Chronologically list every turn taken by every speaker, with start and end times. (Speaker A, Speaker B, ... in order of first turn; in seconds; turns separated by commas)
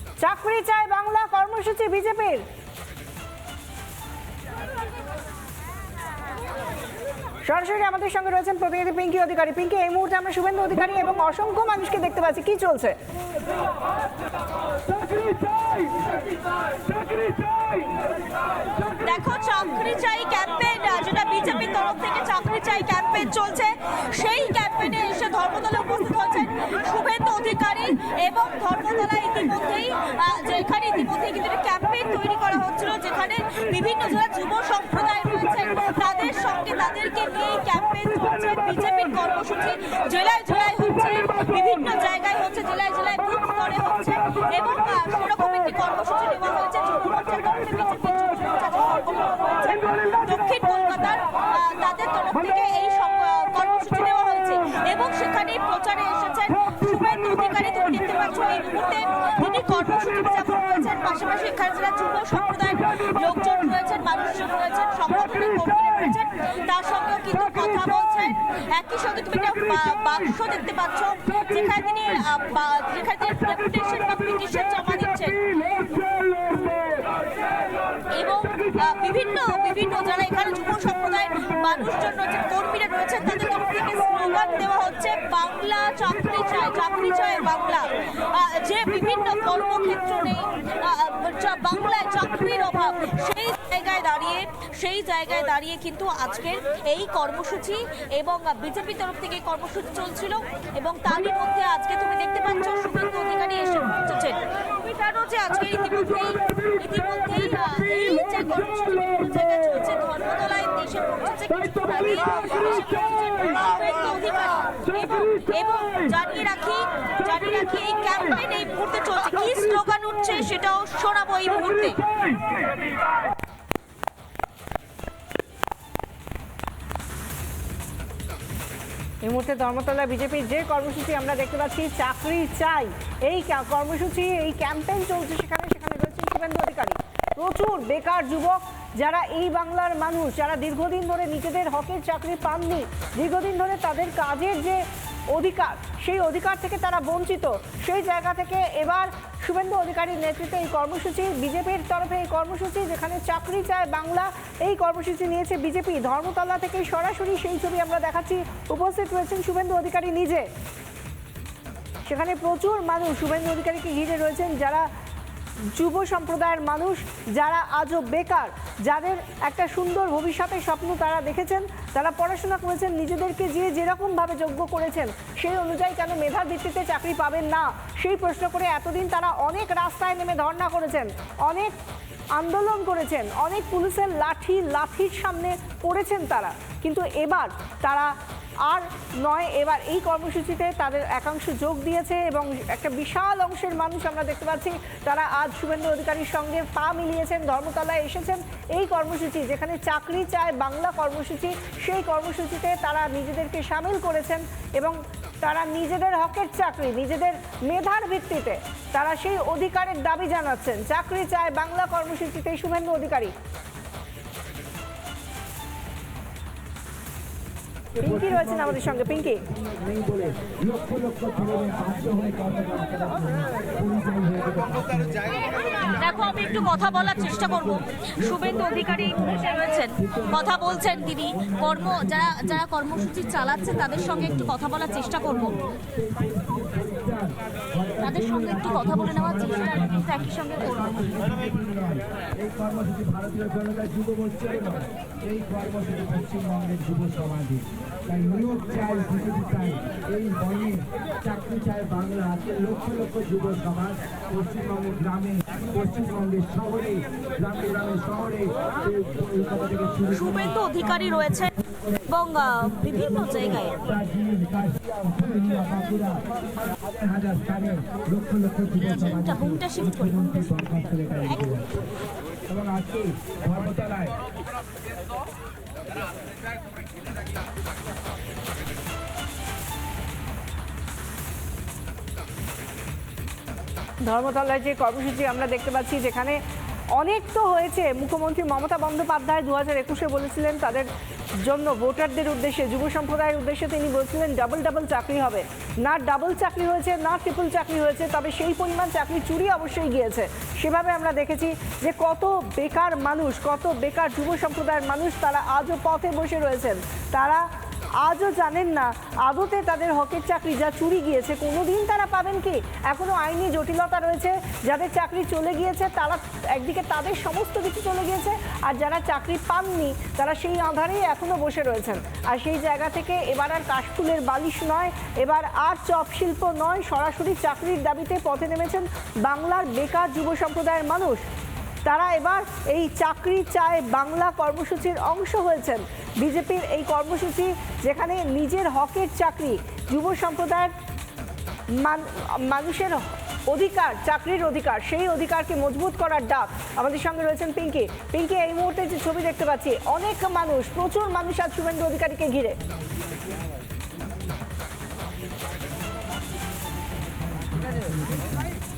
Speaker A: 0.2-2.4, Speaker A: 7.5-12.9, Speaker B: 19.0-75.8, Speaker B: 78.1-122.0, Speaker A: 129.2-160.5, Speaker A: 162.1-164.9, Speaker A: 165.7-181.7, Speaker A: 182.3-188.1, Speaker A: 188.7-213.3, Speaker C: 217.9-234.5, Speaker A: 218.0-219.4, Speaker B: 225.9-235.6, Speaker C: 235.2-262.1, Speaker B: 238.0-241.2, Speaker B: 260.1-261.5, Speaker B: 262.1-263.7, Speaker C: 262.6-266.2, Speaker C: 266.8-271.8, Speaker B: 269.0-271.5, Speaker C: 272.5-274.1, Speaker A: 284.0-286.4, Speaker A: 287.0-290.9, Speaker A: 291.4-307.5, Speaker A: 308.0-331.2, Speaker A: 331.8-340.7, Speaker A: 341.7-352.6, Speaker C: 356.9-358.5